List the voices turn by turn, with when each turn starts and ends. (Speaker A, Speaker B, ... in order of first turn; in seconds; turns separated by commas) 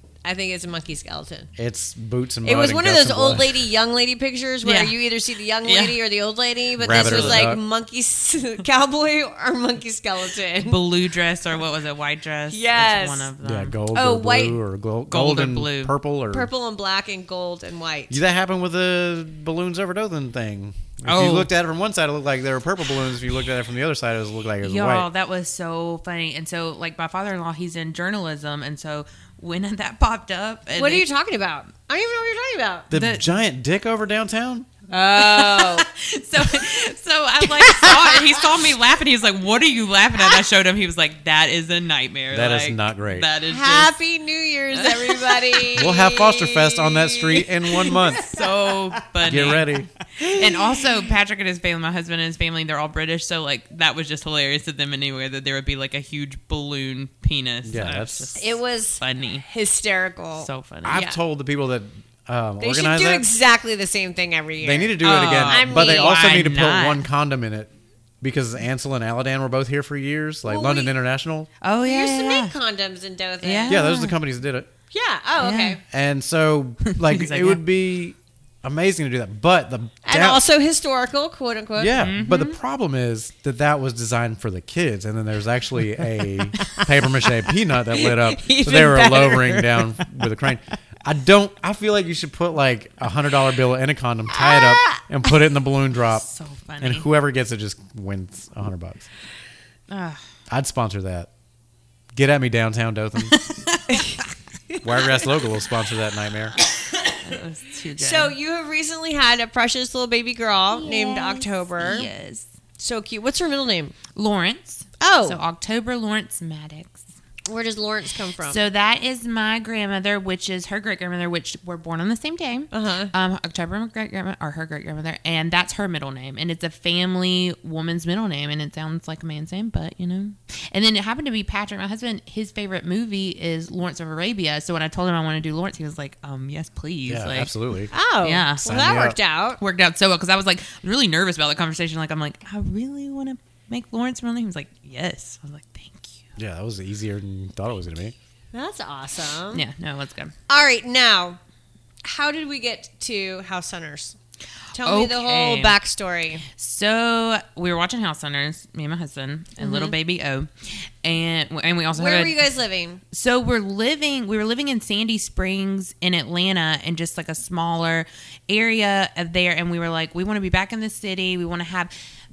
Speaker A: 0.2-1.5, Speaker B: 1.6-3.6, Speaker A: 2.4-10.9, Speaker C: 4.6-5.0, Speaker C: 5.6-6.0, Speaker B: 6.8-7.6, Speaker C: 6.9-7.5, Speaker C: 10.6-13.8, Speaker A: 12.5-13.3, Speaker B: 13.4-16.5, Speaker A: 13.9-14.6, Speaker C: 15.1-15.9, Speaker A: 16.3-18.2, Speaker B: 18.1-25.1, Speaker C: 21.1-21.5, Speaker C: 24.6-31.1, Speaker A: 30.7-32.9, Speaker B: 32.9-34.7, Speaker C: 32.9-33.2, Speaker A: 34.9-35.9, Speaker C: 35.1-43.9, Speaker A: 37.5-38.6, Speaker B: 42.3-43.3, Speaker A: 43.5-48.5, Speaker C: 44.7-45.7, Speaker B: 45.8-48.3, Speaker C: 48.2-59.5, Speaker B: 49.2-49.9, Speaker B: 57.6-58.4, Speaker A: 58.4-61.2, Speaker C: 60.4-61.0, Speaker B: 60.9-63.3, Speaker A: 62.6-66.5, Speaker B: 64.6-71.5, Speaker C: 65.0-67.0, Speaker A: 70.5-70.9, Speaker C: 71.6-72.5, Speaker A: 71.8-73.8, Speaker C: 73.4-74.2, Speaker B: 73.7-74.7, Speaker A: 74.9-75.8, Speaker C: 75.4-75.8, Speaker B: 75.9-80.4, Speaker C: 76.9-77.6, Speaker A: 80.0-82.0, Speaker B: 81.8-96.3, Speaker C: 82.0-82.5, Speaker A: 86.6-87.3, Speaker A: 87.9-90.1, Speaker A: 94.3-95.0, Speaker C: 96.1-97.1, Speaker B: 96.8-99.1, Speaker C: 99.9-100.2, Speaker B: 100.5-101.3, Speaker B: 102.1-103.5, Speaker C: 103.3-104.2, Speaker B: 104.8-106.6, Speaker C: 107.2-108.3, Speaker A: 108.0-112.1, Speaker C: 110.7-112.5, Speaker A: 112.8-114.0, Speaker C: 114.2-117.1, Speaker A: 115.0-115.4, Speaker A: 117.5-118.6, Speaker C: 118.5-137.5, Speaker A: 122.7-123.1, Speaker B: 137.1-137.9, Speaker A: 137.9-139.6, Speaker C: 138.2-138.7, Speaker B: 138.6-139.2, Speaker C: 139.6-146.3, Speaker B: 146.4-148.2, Speaker A: 148.5-149.6, Speaker C: 149.5-150.3, Speaker A: 150.5-151.4, Speaker A: 152.0-154.2, Speaker C: 154.7-155.8, Speaker A: 154.8-156.4, Speaker C: 156.6-162.4, Speaker A: 159.6-159.9, Speaker A: 161.9-163.0, Speaker C: 163.1-171.9